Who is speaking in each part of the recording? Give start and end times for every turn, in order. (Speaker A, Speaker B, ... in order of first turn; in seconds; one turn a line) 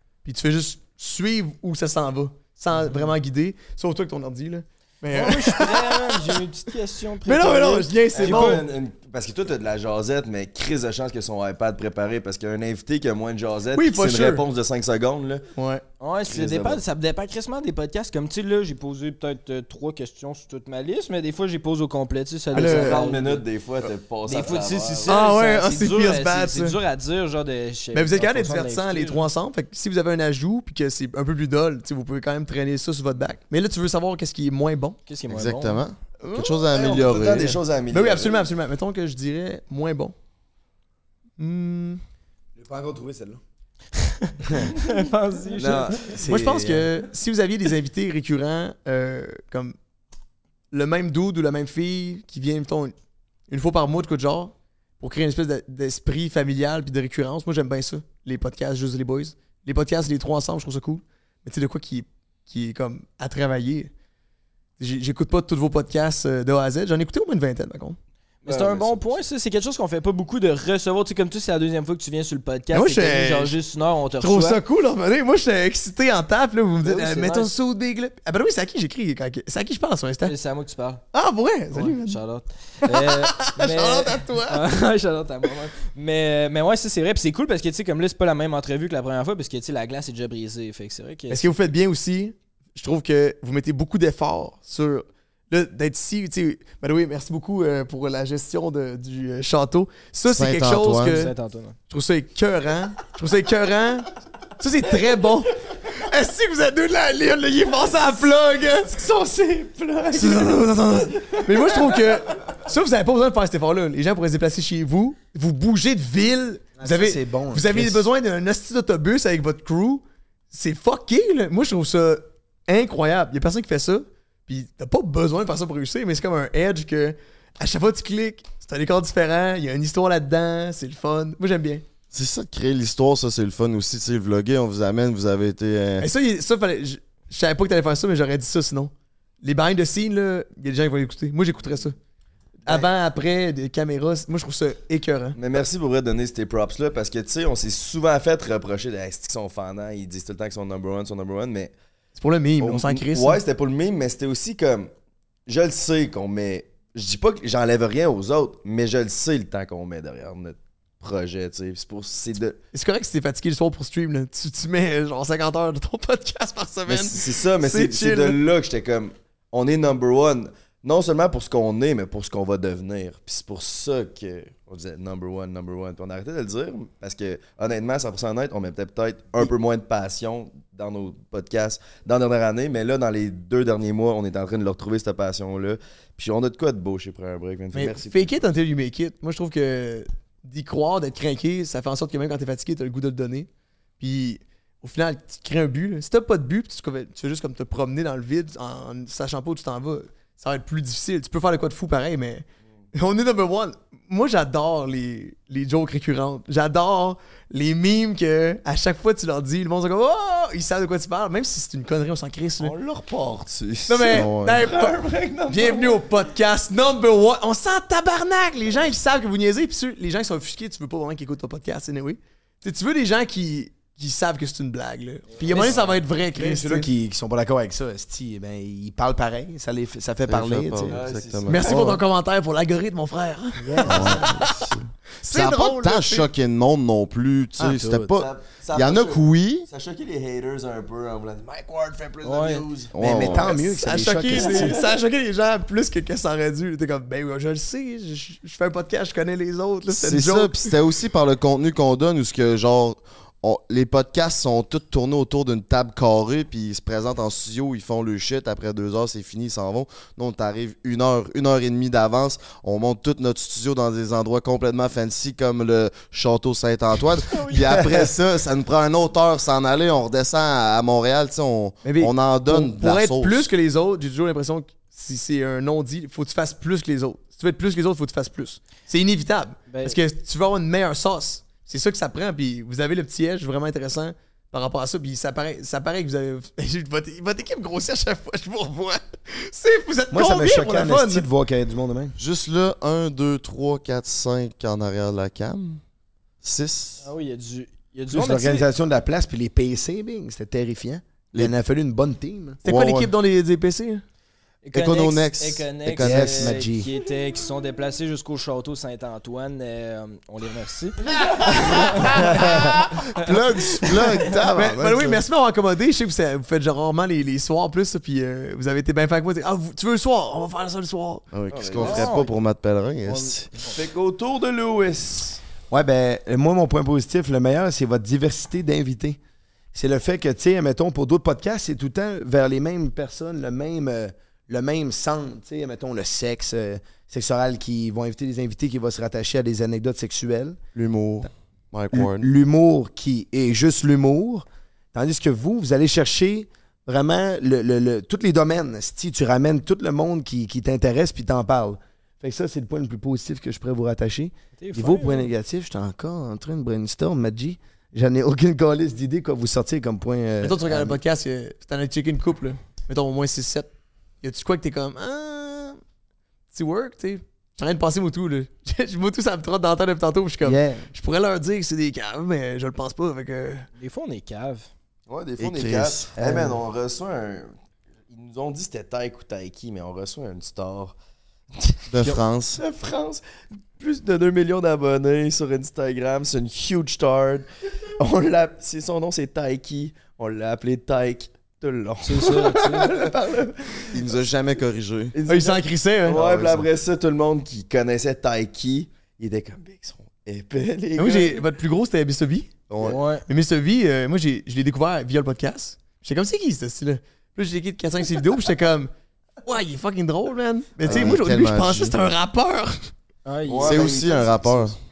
Speaker A: 0.2-6.4
Speaker B: 5.1-8.6
Speaker A: 7.2-8.6
Speaker C: 8.1-15.4
Speaker A: 13.8-14.4
Speaker A: 15.6-15.8
Speaker B: 16.0-23.4
Speaker C: 16.2-16.8
Speaker A: 22.5-23.0
Speaker C: 22.5-25.2
Speaker B: 24.3-29.2
Speaker A: 25.1-26.8
Speaker A: 27.9-35.0
Speaker B: 35.1-35.8
Speaker D: 35.3-37.6
Speaker A: 36.2-36.6
Speaker C: 36.7-38.5
Speaker A: 37.9-40.1
Speaker A: 41.4-42.0
Speaker E: 42.5-43.4
Speaker E: 44.5-44.7
Speaker B: 44.8-46.1
Speaker C: 45.5-46.1
Speaker E: 46.0-46.9
Speaker A: 46.3-49.8
Speaker A: 50.7-52.9
Speaker A: 53.5-63.9
Speaker A: 64.8-68.0
Speaker B: 68.4-74.6
Speaker C: 68.4-69.3
Speaker A: 72.7-73.5
Speaker A: 74.2-80.3
Speaker B: 76.8-77.5
Speaker B: 80.2-81.0
Speaker A: 81.1-82.2
Speaker B: 81.7-91.5
Speaker A: 82.8-84.7
Speaker A: 91.3-101.3
Speaker D: 100.2-101.2
Speaker B: 101.0-101.8
Speaker A: 101.9-109.0
Speaker C: 109.0-110.7
Speaker A: 110.1-131.8
Speaker C: 111.3-111.8
Speaker E: 116.8-118.0
Speaker D: 132.1-136.1
Speaker A: 136.0-138.9
Speaker A: 139.4-142.0
Speaker A: 142.7-145.4
Speaker C: 145.3-151.7
Speaker A: 152.2-153.4
Speaker C: 152.6-154.9
Speaker C: 155.5-162.6
Speaker A: 162.7-168.4
Speaker C: 166.9-188.3
Speaker A: 187.7-193.5
Speaker A: 194.0-212.7
Speaker C: 212.6-216.0
Speaker A: 213.9-214.9
Speaker D: 214.1-214.7
Speaker A: 215.4-226.9
Speaker B: 225.4-225.8
Speaker E: 226.3-231.0
Speaker D: 230.3-232.0
Speaker C: 230.9-231.7
Speaker A: 231.5-234.6
Speaker E: 233.6-234.4
Speaker D: 233.9-239.7
Speaker A: 235.2-236.3
Speaker E: 237.6-238.1
Speaker C: 238.1-243.5
Speaker B: 242.2-242.7
Speaker D: 242.9-243.5
Speaker E: 242.9-244.8
Speaker A: 243.5-250.7
Speaker D: 249.9-273.5
Speaker A: 271.8-291.3
Speaker B: 279.7-279.9
Speaker E: 290.1-292.1
Speaker D: 292.2-295.8
Speaker D: 296.4-297.0
Speaker B: 297.0-298.7
Speaker E: 298.1-302.6
Speaker A: 302.6-304.0
Speaker D: 302.6-303.1
Speaker B: 304.6-313.4
Speaker D: 304.7-306.6
Speaker E: 305.9-306.9
Speaker E: 312.2-312.7
Speaker D: 312.4-315.2
Speaker A: 314.5-321.2
Speaker D: 321.3-323.5
Speaker C: 321.5-322.1
Speaker B: 321.8-322.3
Speaker B: 323.1-323.7
Speaker C: 323.6-325.4
Speaker E: 325.7-329.2
Speaker E: 329.7-340.6
Speaker D: 340.7-342.3
Speaker E: 341.9-361.0
Speaker B: 354.6-355.3
Speaker A: 360.4-365.8
Speaker A: 366.5-373.7
Speaker E: 370.4-370.9
Speaker B: 373.8-374.7
Speaker C: 375.1-377.5
Speaker D: 375.4-376.1
Speaker E: 376.2-376.6
Speaker C: 378.1-380.9
Speaker C: 381.5-381.8
Speaker D: 381.9-382.6
Speaker C: 382.6-383.2
Speaker C: 383.8-394.1
Speaker B: 392.0-393.1
Speaker D: 393.9-395.1
Speaker C: 395.1-401.4
Speaker A: 395.3-396.2
Speaker D: 396.1-396.7
Speaker A: 400.9-402.5
Speaker C: 402.7-403.0
Speaker B: 402.8-403.2
Speaker A: 403.3-408.9
Speaker A: 409.4-412.9
Speaker D: 410.8-411.9
Speaker B: 413.2-413.9
Speaker C: 413.5-414.8
Speaker D: 413.6-414.8